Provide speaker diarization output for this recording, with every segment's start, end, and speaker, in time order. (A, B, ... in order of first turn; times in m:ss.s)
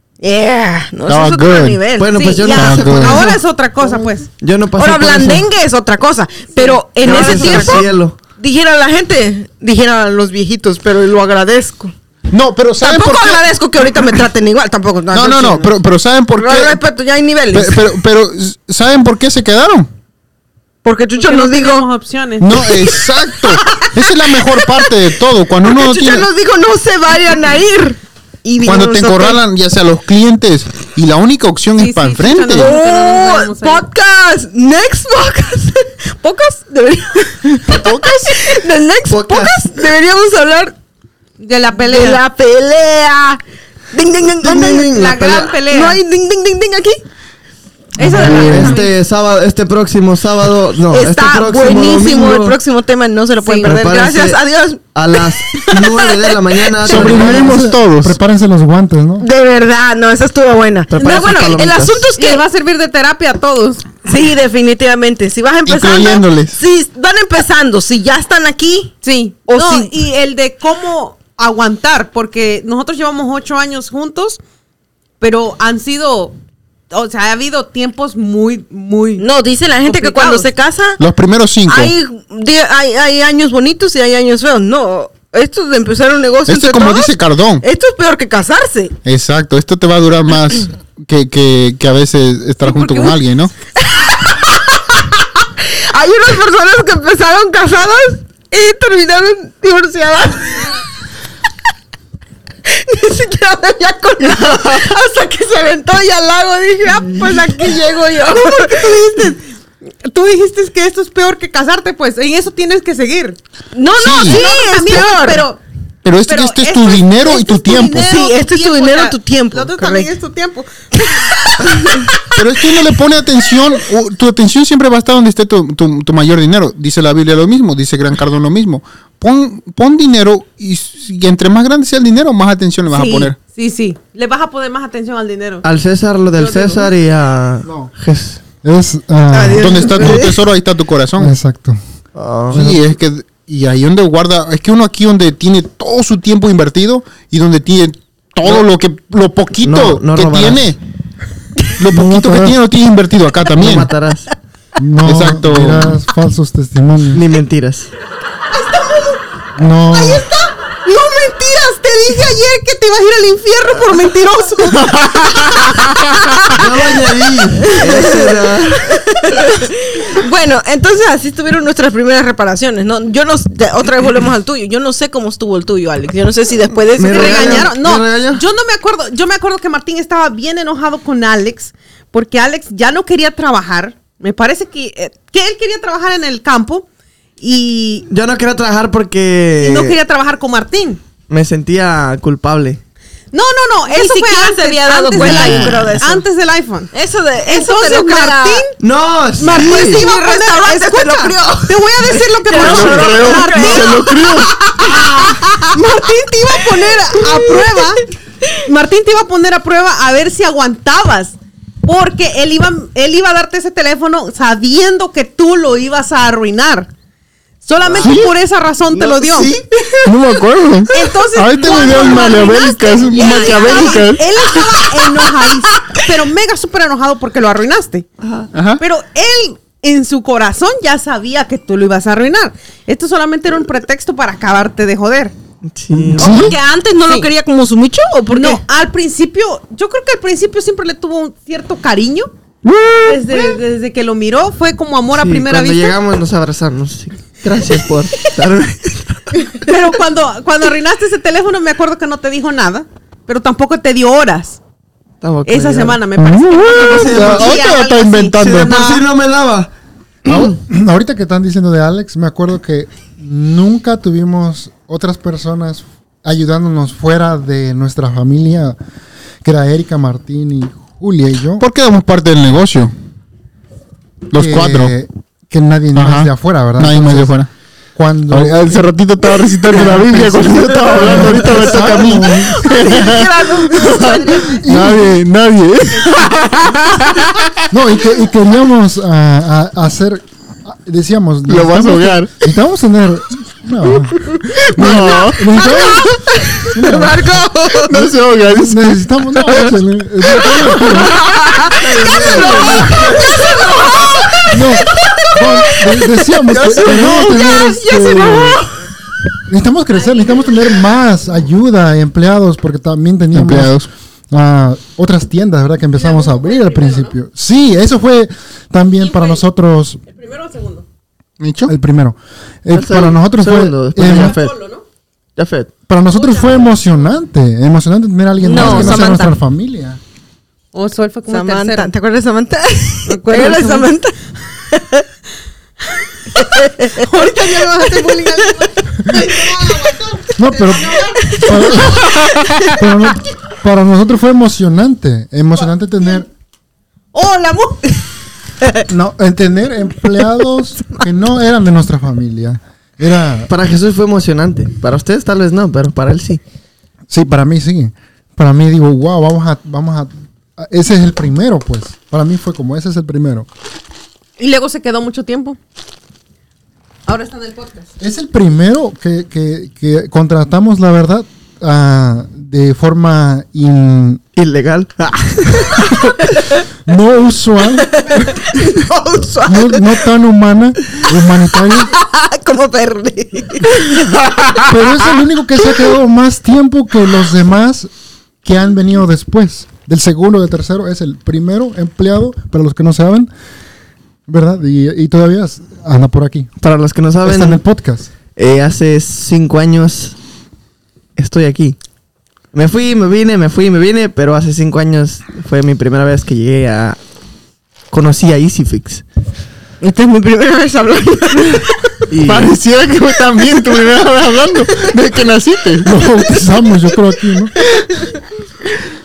0:00.2-0:02.6 A
0:01.1-0:01.8 B
0:02.0-0:03.4 C
0:02.1-0:04.3 D
0:02.5-0:03.3 B
0:04.4-0:05.4 C
0:04.8-0:11.9 A
0:06.6-0:07.9 D
0:07.0-0:08.2 C
0:12.3-0:13.4 B
0:12.8-0:15.7 A
0:15.1-0:16.8 B
0:16.4-0:17.9 A
0:17.5-0:19.9 B
0:20.8-0:21.9 A
0:21.2-0:22.7 D
0:22.4-0:26.3 B
0:22.8-0:24.9 A
0:25.6-0:29.4 A
0:28.6-0:32.7 B
0:31.8-0:33.8 D
0:32.5-0:40.7 A
0:37.7-0:38.4 B
0:39.1-0:39.5 C
0:41.4-0:42.2 D
0:41.8-0:43.4 A
0:43.9-0:47.0 A
0:44.4-0:45.5 C
0:44.8-0:46.0 D
0:48.0-0:48.9 D
0:48.0-0:48.8 B
0:48.1-0:52.6 C
0:50.9-0:57.1 A
0:53.4-0:53.7 D
0:53.6-0:54.4 C
0:54.9-0:57.5 C
0:56.8-0:58.2 B
0:57.0-0:59.3 E
0:59.2-1:02.4 A
1:00.9-1:02.1 C
1:02.2-1:03.9 D
1:04.0-1:09.9 A
1:05.6-1:06.6 B
1:09.0-1:14.4 D
1:15.2-1:16.4 D
1:16.9-1:19.2 D
1:19.2-1:21.0 A
1:19.8-1:20.5 D
1:21.0-1:21.9 B
1:21.7-1:28.9 A
1:26.5-1:27.6 B
1:29.0-1:33.5 B
1:32.6-1:33.1 D
1:33.8-1:40.7 A
1:42.6-1:49.2 A
1:48.3-1:49.4 D
1:50.0-1:53.4 D
1:53.7-1:55.4 A
1:54.0-1:54.4 B
1:54.2-1:55.6 D
1:56.0-1:58.1 B
1:56.3-2:02.2 D
1:58.0-2:00.1 A
2:01.0-2:02.2 A
2:02.3-2:13.4 B
2:12.9-2:15.6 D
2:15.6-2:18.4 C
2:16.4-2:16.9 D
2:17.6-2:17.9 E
2:18.6-2:20.3 E
2:19.3-2:20.4 A
2:19.5-2:21.4 B
2:21.2-2:21.8 E
2:22.1-2:22.8 C
2:22.5-2:30.8 B
2:29.6-2:30.7 C
2:31.8-2:33.9 B
2:31.9-2:32.6 E
2:33.6-2:34.3 C
2:34.8-2:37.2 E
2:35.0-2:36.0 B
2:37.1-2:37.9 C
2:39.6-2:40.2 E
2:40.8-2:45.7 D
2:44.8-2:46.1 B
2:46.5-2:49.0 C
2:47.6-2:57.7 A
2:57.0-2:58.4 C
2:57.1-3:06.9 D
3:07.4-3:08.1 D
3:08.1-3:10.0 C
3:09.6-3:11.0 D
3:11.3-3:12.8 C
3:13.3-3:16.9 D
3:13.9-3:16.2 A
3:15.1-3:15.9 B
3:16.9-3:18.6 A
3:17.4-3:18.8 D
3:18.8-3:20.0 C
3:19.4-3:24.1 D
3:19.4-3:25.6 A
3:22.5-3:24.5 B
3:24.8-3:28.0 D
3:27.3-3:27.7 A
3:28.6-3:36.9 D
3:37.6-3:39.5 D
3:37.8-3:38.2 C
3:38.0-3:38.3 B
3:38.9-3:40.1 C
3:40.0-3:44.3 B
3:40.9-3:48.0 D
3:43.0-3:44.1 A
3:48.2-3:48.5 C
3:48.5-3:48.8 B
3:48.8-3:55.3 D
3:55.7-3:56.5 C
3:55.9-3:56.6 B
3:56.2-3:58.6 A
3:58.3-4:02.3 D
4:02.6-4:03.5 B
4:03.0-4:06.0 D
4:05.1-4:09.6 C
4:09.5-4:14.6 D
4:15.2-4:16.0 C
4:15.4-4:19.0 D
4:16.2-4:18.8 B
4:16.6-4:17.7 C
4:18.4-4:19.7 C
4:20.2-4:28.8 E
4:29.4-4:31.6 E
4:31.6-4:32.9 B
4:34.3-4:34.9 B
4:34.3-4:37.4 E
4:35.9-4:37.5 B
4:37.9-4:38.9 E
4:38.3-4:47.6 B
4:39.7-4:42.6 E
4:40.8-4:41.7 C
4:42.3-4:44.7 A
4:44.5-4:45.2 E
4:47.7-5:01.3 E
4:51.5-4:52.3 B
4:54.6-4:56.3 B
4:55.6-4:55.8 A
4:56.5-4:57.9 A
4:57.8-4:59.7 B
5:00.4-5:08.8 A
5:01.8-5:03.5 C
5:04.5-5:08.6 E
5:09.5-5:13.8 E
5:10.0-5:10.4 D
5:13.3-5:13.9 B
5:14.3-5:20.0 E
5:15.9-5:17.1 D
5:19.0-5:19.4 D
5:20.0-5:20.8 D
5:21.4-5:21.7 B
5:21.7-5:24.4 E
5:22.7-5:24.6 C
5:24.0-5:24.8 D
5:25.4-5:25.7 C
5:25.9-5:30.0 E
5:26.1-5:26.7 D
5:28.4-5:29.4 A
5:28.5-5:28.9 C
5:30.7-5:31.9 D
5:31.3-5:35.0 A
5:33.0-5:33.9 D
5:35.9-5:42.7 D
5:36.3-5:39.9 A
5:40.4-5:46.3 E
5:41.0-5:42.7 A
5:42.2-5:42.5 B
5:45.6-5:46.2 D
5:47.1-5:48.0 D
5:48.9-5:53.5 E
5:53.5-5:56.4 C
5:57.1-6:03.5 E
6:04.4-6:05.6 D
6:07.0-6:07.9 D
6:08.0-6:14.2 E
6:14.4-6:16.1 C
6:16.8-6:18.1 E
6:17.9-6:19.8 A
6:19.4-6:21.9 E
6:21.9-6:24.1 A
6:24.6-6:27.9 E
6:28.4-6:33.3 E
6:34.3-6:36.5 E
6:36.6-6:37.6 C
6:37.2-6:38.1 E
6:38.3-6:40.2 C
6:41.2-6:41.8 C
6:42.5-6:47.0 C
6:47.9-6:49.0 C
6:49.8-6:51.9 A
6:52.1-6:52.5 C
6:52.2-6:55.9 B
6:55.8-6:57.5 E